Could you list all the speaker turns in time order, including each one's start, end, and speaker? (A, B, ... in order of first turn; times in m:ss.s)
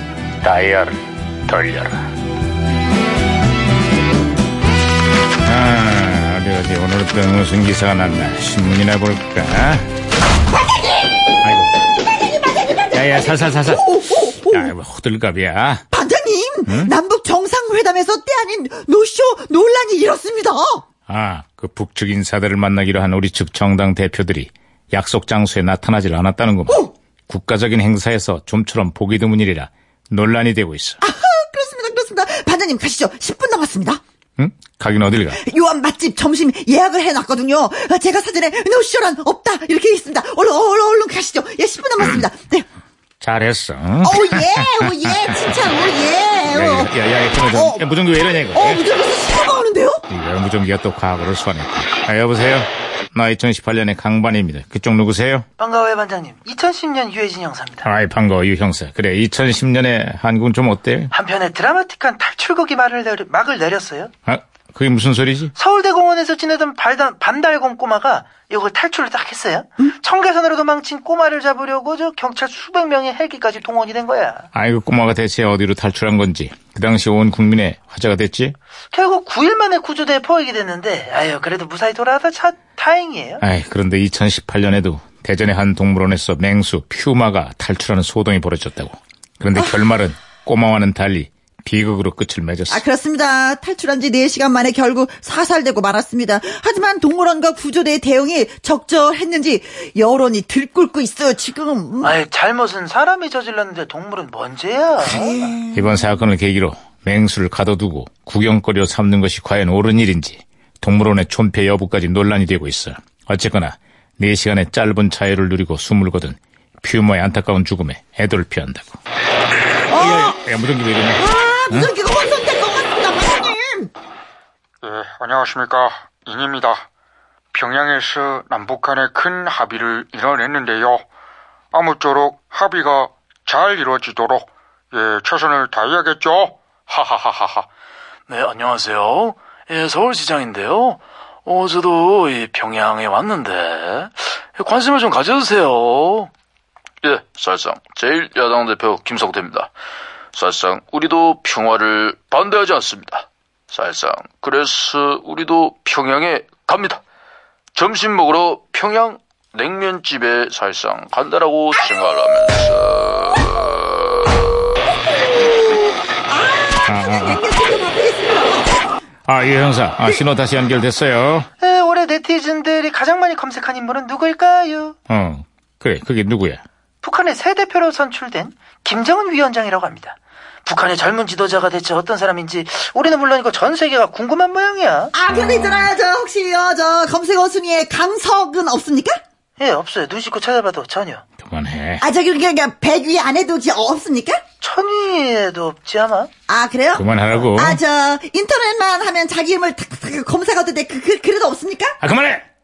0:00.4-0:02.0 A
0:05.4-0:09.9 A
0:11.4-0:11.8 A
0:12.0-0:14.7 B
0:12.9-0:13.9 A
0:14.5-0:15.8 A
0:15.9-0:20.8 B
0:16.7-0:16.9 A
0:21.1-0:31.0 A
0:31.0-0:34.0 B
0:34.4-0:35.4 A
0:35.4-0:42.7 B
0:43.2-0:45.1 A
0:44.0-0:46.9 B
0:46.5-0:48.8 A
0:47.5-0:47.8 B
0:48.5-0:50.0 B
0:50.1-0:55.5 A
0:55.6-0:57.9 C
0:57.8-1:01.1 A
1:01.1-1:04.1 C
1:04.3-1:05.5 A
1:05.6-1:14.5 C
1:14.5-1:18.6 A
1:18.9-1:23.4 C
1:23.4-1:32.8 A
1:32.7-1:42.2 B
1:42.0-1:45.5 C
1:45.1-1:46.0 B
1:45.7-1:59.0 A
1:59.9-2:00.4 B
1:59.9-2:01.9 A
2:01.2-2:03.9 B
2:04.8-2:06.9 D
2:07.5-2:11.0 D
2:11.7-2:17.7 D
2:18.3-2:26.3 E
2:27.0-2:29.7 E
2:30.3-2:37.0 E
2:37.8-2:43.7 E
2:45.0-2:48.9 B
2:46.9-2:47.4 A
2:49.3-2:51.5 A
2:51.6-2:55.0 C
2:55.1-2:56.6 A
2:57.0-3:05.1 C
3:05.2-3:09.2 B
3:09.6-3:11.2 C
3:11.4-3:12.0 A
3:12.0-3:14.4 B
3:14.6-3:16.3 C
3:16.5-3:22.0 B
3:16.9-3:17.8 A
3:22.0-3:22.4 A